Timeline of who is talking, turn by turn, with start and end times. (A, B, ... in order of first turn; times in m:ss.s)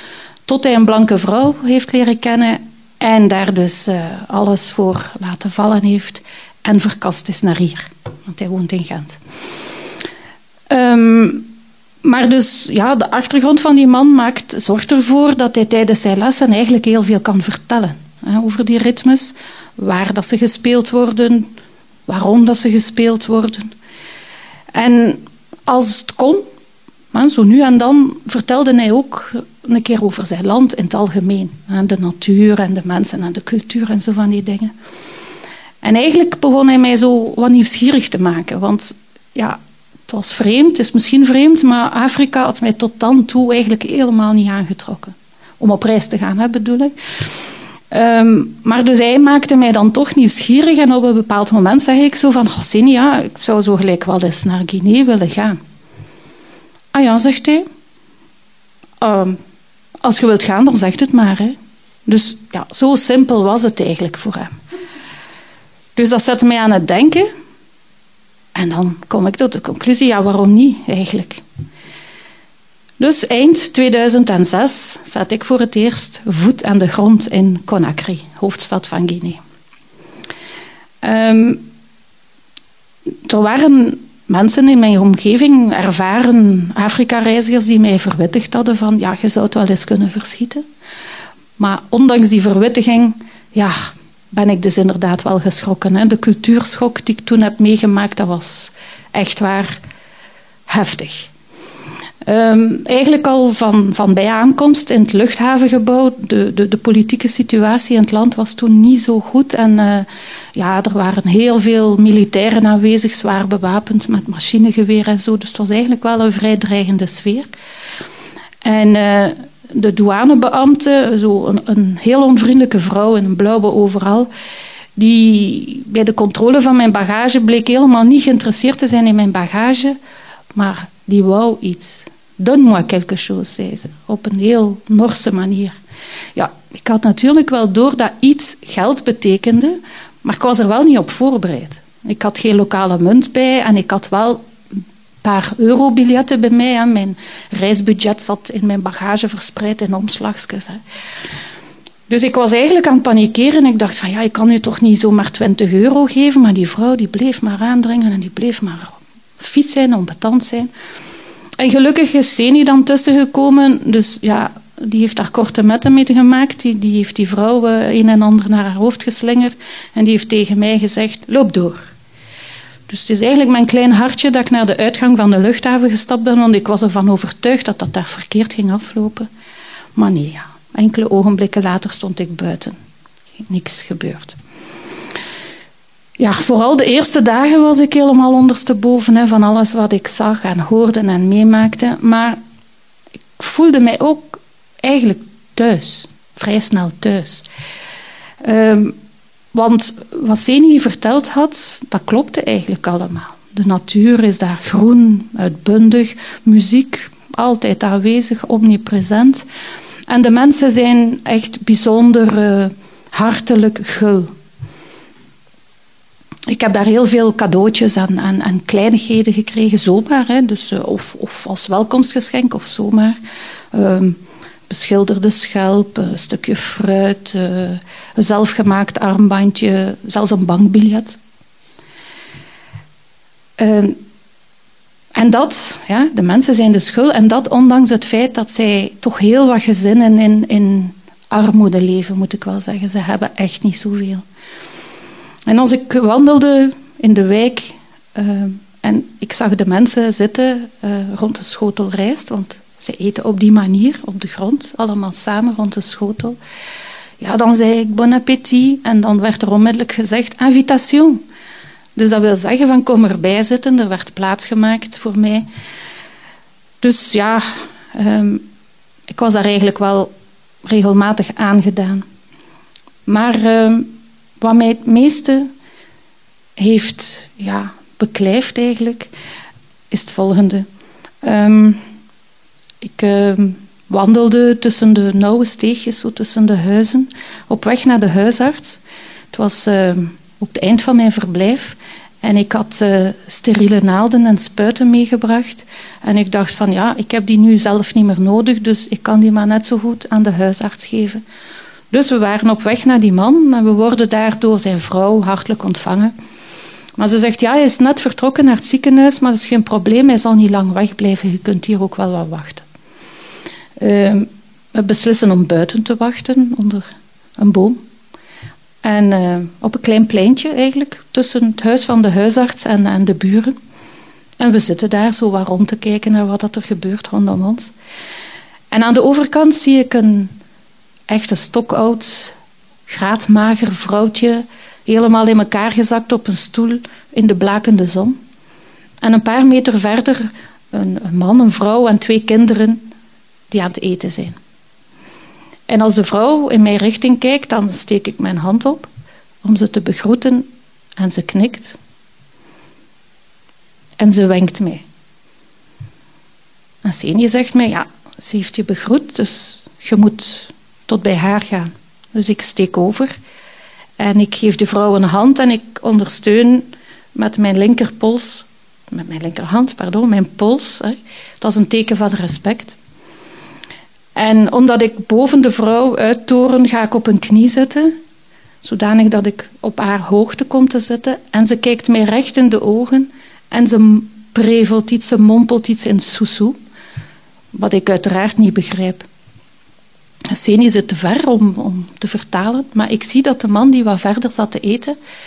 0:00.5-0:09.2 A
0:10.7-0:11.5 A
0:12.0-0:21.5 A
0:22.1-0:23.7 A
0:24.7-0:26.4 A
0:27.1-0:34.7 A
0:35.8-0:46.9 A
0:47.9-0:55.6 A
0:56.9-0:57.6 A
0:59.0-0:59.4 A
1:00.0-1:04.5 A
1:06.0-1:07.3 A
1:08.5-1:11.4 A
1:13.0-1:19.4 A
1:21.0-1:21.6 A
1:23.2-1:30.6 A
1:31.6-1:39.8 A
1:40.7-1:41.3 A
1:42.2-1:57.5 A
1:58.6-2:04.3 A
2:05.0-2:10.0 A
2:10.5-2:15.8 A
2:16.4-2:24.4 A
2:25.2-2:30.8 A
2:32.1-2:40.7 A
2:41.6-2:51.9 A
2:52.9-2:59.3 A
3:00.0-3:02.8 A
3:03.4-3:04.4 A
3:06.2-3:12.4 A
3:13.4-3:17.4 A
3:18.4-3:19.0 A
3:19.5-3:29.4 A
3:30.1-3:34.3 A
3:36.5-3:43.2 A
3:43.7-3:51.2 A
3:53.6-3:54.0 A
3:55.1-4:04.2 A
4:05.5-4:16.4 A
4:17.2-4:21.2 A
4:22.0-4:25.5 A
4:26.8-4:28.4 A
4:29.1-4:30.1 A
4:30.6-4:32.0 A
4:33.0-4:35.5 A
4:36.6-4:39.1 A
4:39.9-4:40.7 A
4:41.2-4:41.8 A
4:42.8-4:48.8 A
4:49.3-5:01.2 A
5:01.9-5:06.1 A
5:07.0-5:12.6 A
5:13.8-5:16.8 A
5:17.4-5:17.8 A
5:18.8-5:23.6 A
5:24.4-5:27.7 A
5:28.7-5:30.3 A
5:31.1-5:32.3 A
5:32.9-5:38.2 A
5:39.0-5:42.9 A
5:43.5-5:44.4 A
5:45.7-5:48.9 A
5:49.4-5:51.8 A
5:54.0-5:54.8 A
5:56.8-6:03.1 A
6:04.0-6:12.8 A
6:14.2-6:17.9 A
6:18.6-6:26.6 A
6:27.5-6:29.1 A
6:30.3-6:35.0 A